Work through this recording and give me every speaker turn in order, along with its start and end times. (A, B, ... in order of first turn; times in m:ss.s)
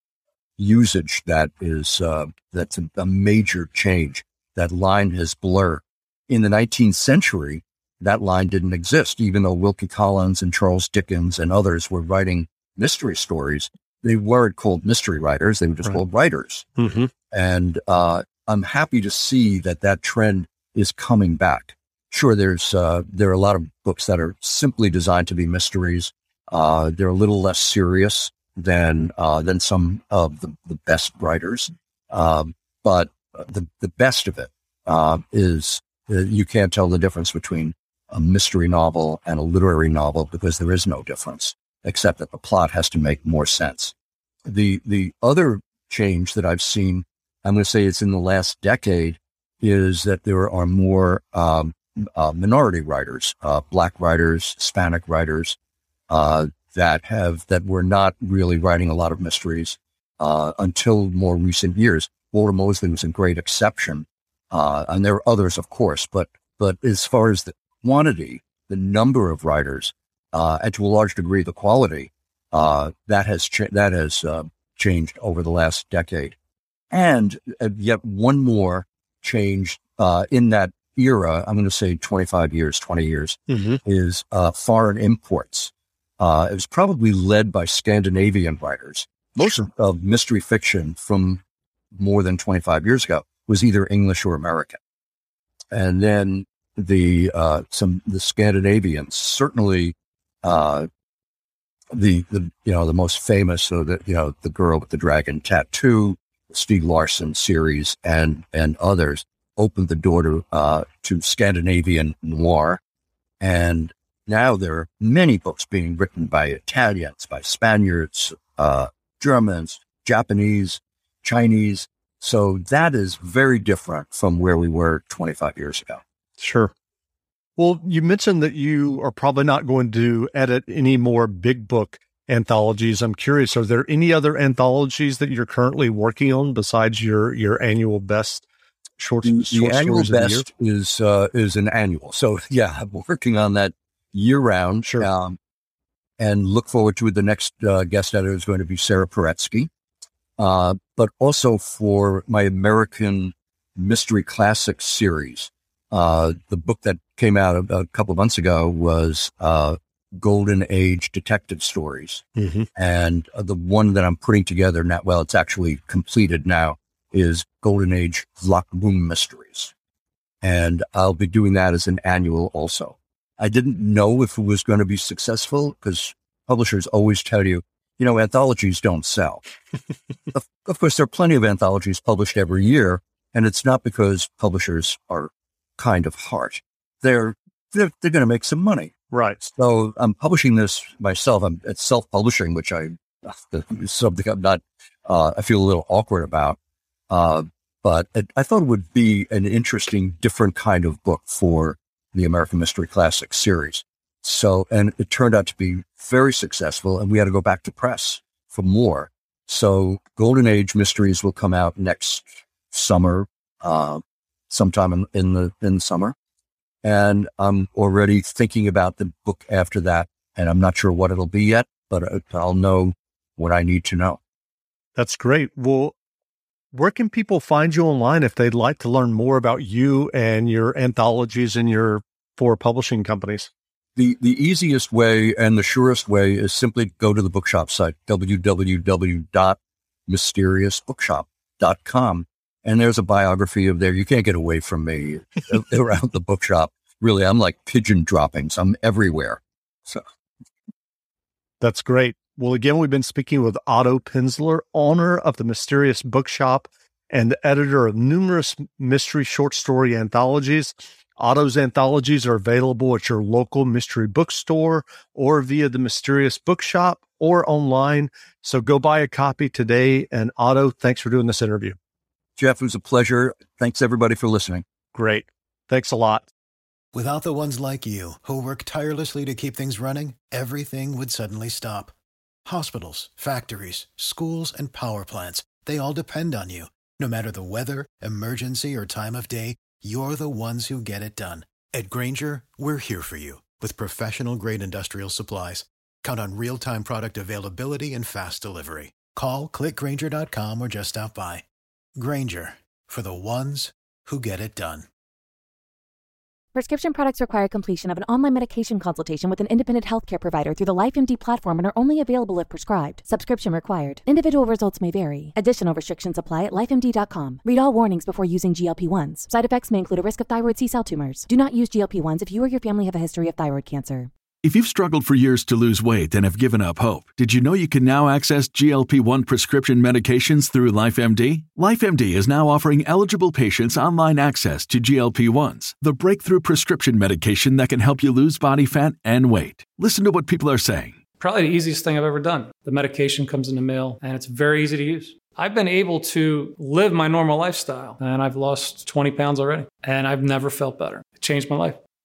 0:00.6-0:16.7 A
0:16.8-0:17.1 B
0:17.2-0:43.9 A
0:44.4-0:55.6 A
0:56.1-1:16.3 A
1:16.9-1:31.4 A
1:23.5-1:23.8 B
1:31.9-1:34.8 A
1:35.7-1:40.9 A
1:41.9-1:52.8 A
1:53.4-2:06.0 A
2:06.4-2:06.7 B
2:07.6-2:18.4 B
2:19.0-2:20.4 B
2:19.2-2:25.4 A
2:24.8-2:25.1 B
2:26.2-2:29.7 A
2:30.4-2:49.7 A
2:42.4-2:42.7 B
2:50.4-2:59.4 A
3:00.3-3:16.6 A
3:09.1-3:09.4 B
3:17.1-3:36.1 A
3:36.8-3:44.2 A
3:45.0-3:45.9 B
3:46.7-3:53.5 B
3:54.0-4:10.0 A
4:11.6-4:31.8 B
4:32.4-4:34.6 A
4:34.9-4:36.3 B
4:36.9-4:41.9 C
4:42.4-5:01.4 C
5:02.0-5:04.9 C
5:06.5-5:24.1 D
5:24.4-5:41.0 E
5:41.2-5:51.8 F